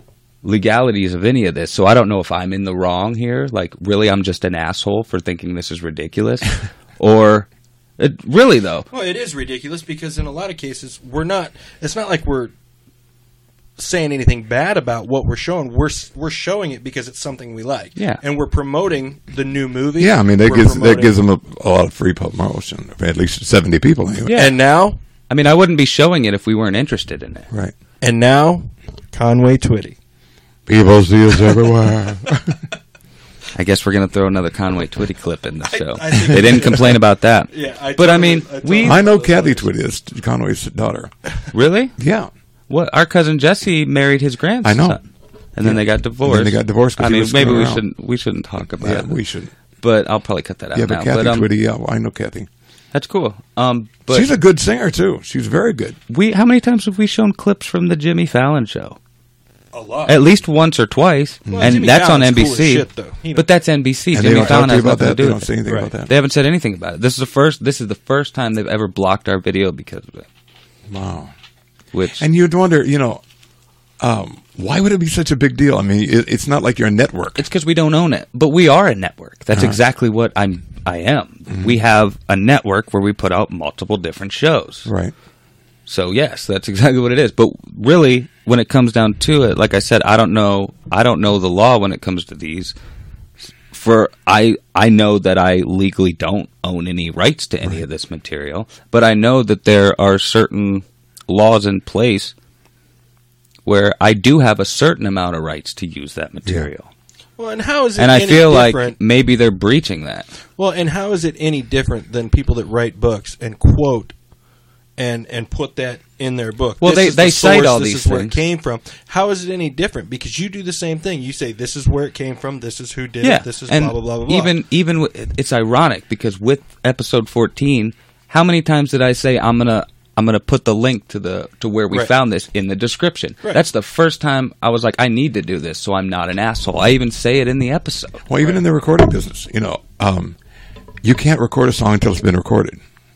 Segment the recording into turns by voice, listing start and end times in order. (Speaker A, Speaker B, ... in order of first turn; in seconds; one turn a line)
Speaker A: 0.4-7.5
Speaker A: 8.0-8.9
Speaker B: 8.9-12.5
Speaker B: 13.8-21.1
Speaker C: 20.0-24.4
Speaker A: 24.2-24.6
Speaker B: 24.3-25.0
Speaker A: 25.3-27.5
Speaker B: 28.0-30.0
Speaker C: 30.7-32.6
Speaker A: 33.5-39.0
Speaker B: 35.7-39.7
Speaker C: 38.8-41.1
Speaker A: 41.5-41.9
Speaker C: 42.0-42.3
Speaker A: 42.7-49.1
Speaker C: 44.6-45.0
Speaker C: 45.6-47.8
Speaker C: 48.8-49.5
Speaker A: 49.8-51.5
Speaker C: 50.8-52.5
Speaker A: 52.9-54.3
Speaker C: 54.1-56.0
Speaker A: 56.1-59.0
Speaker B: 59.7-60.2
Speaker A: 60.1-65.5
Speaker C: 61.5-61.8
Speaker B: 61.5-63.5
Speaker C: 64.1-66.1
Speaker A: 66.1-70.2
Speaker C: 70.9-71.3
Speaker A: 71.9-72.2
Speaker C: 72.2-73.2
Speaker C: 74.0-77.4
Speaker A: 77.4-84.9
Speaker C: 79.5-79.8
Speaker C: 84.8-85.1
Speaker A: 85.9-92.7
Speaker A: 93.7-102.3
Speaker A: 103.7-106.9
Speaker B: 107.4-109.0
Speaker A: 108.0-110.3
Speaker B: 110.6-114.1
Speaker B: 115.0-124.5
Speaker A: 116.8-118.4
Speaker A: 123.2-138.2
Speaker C: 138.3-140.4
Speaker C: 141.0-142.8